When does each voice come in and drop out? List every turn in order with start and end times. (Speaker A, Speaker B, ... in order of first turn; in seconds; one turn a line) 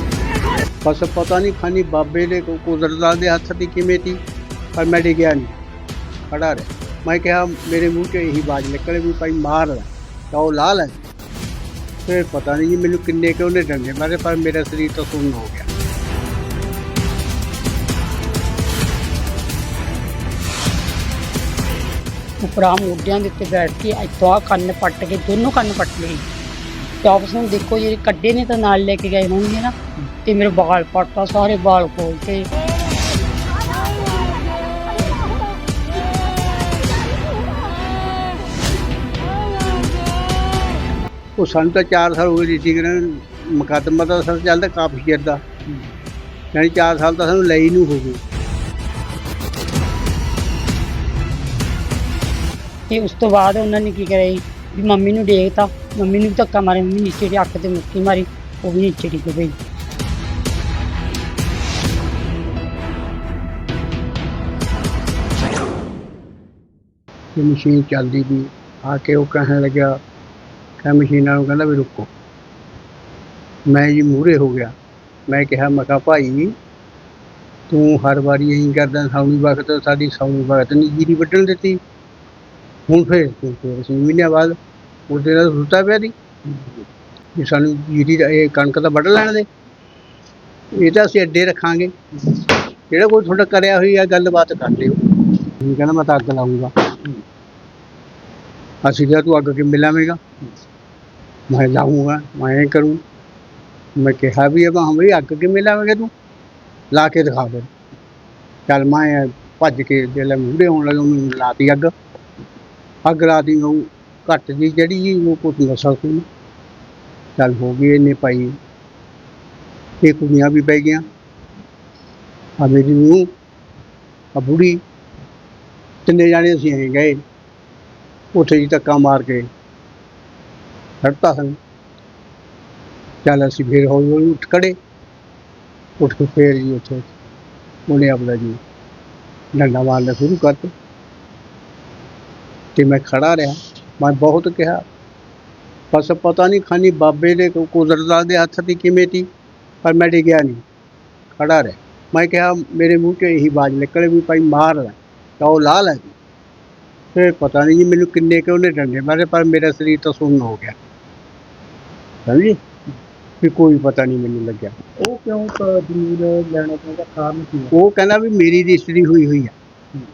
Speaker A: 0.8-4.2
Speaker A: 4.8-5.5
Speaker A: 6.3-10.9
Speaker A: 12.1-15.7
Speaker B: 22.4-26.2
Speaker B: 27.0-32.5
Speaker A: 41.4-45.4
Speaker A: 46.5-48.2
Speaker B: 52.9-59.5
Speaker A: 67.3-70.0
Speaker A: 70.8-72.1
Speaker A: 73.7-74.7
Speaker A: 75.3-76.5
Speaker A: 77.7-81.8
Speaker A: 82.9-84.6
Speaker A: 85.1-86.1
Speaker A: 87.4-89.5
Speaker A: 90.7-91.9
Speaker A: 92.9-95.0
Speaker A: 95.6-96.7
Speaker A: 98.8-100.2
Speaker A: 101.5-103.0
Speaker A: 104.0-106.1
Speaker A: 106.9-107.7
Speaker A: 108.7-111.9
Speaker A: 113.1-116.2
Speaker A: 117.4-118.5
Speaker A: 120.0-121.0
Speaker A: 122.6-123.3
Speaker A: 124.4-124.8
Speaker A: 126.1-127.2
Speaker A: 128.3-129.5
Speaker A: 131.0-131.6
Speaker A: 133.2-134.8
Speaker A: 136.0-137.1
Speaker A: 137.9-138.6
Speaker A: 139.6-140.7
Speaker A: 142.8-144.8
Speaker A: 145.9-149.3
Speaker A: 149.8-150.6
Speaker A: 151.4-156.1
Speaker A: 157.2-160.8
Speaker A: 162.3-162.6
Speaker A: 163.4-164.7
Speaker C: 165.0-167.7
Speaker A: 167.7-169.5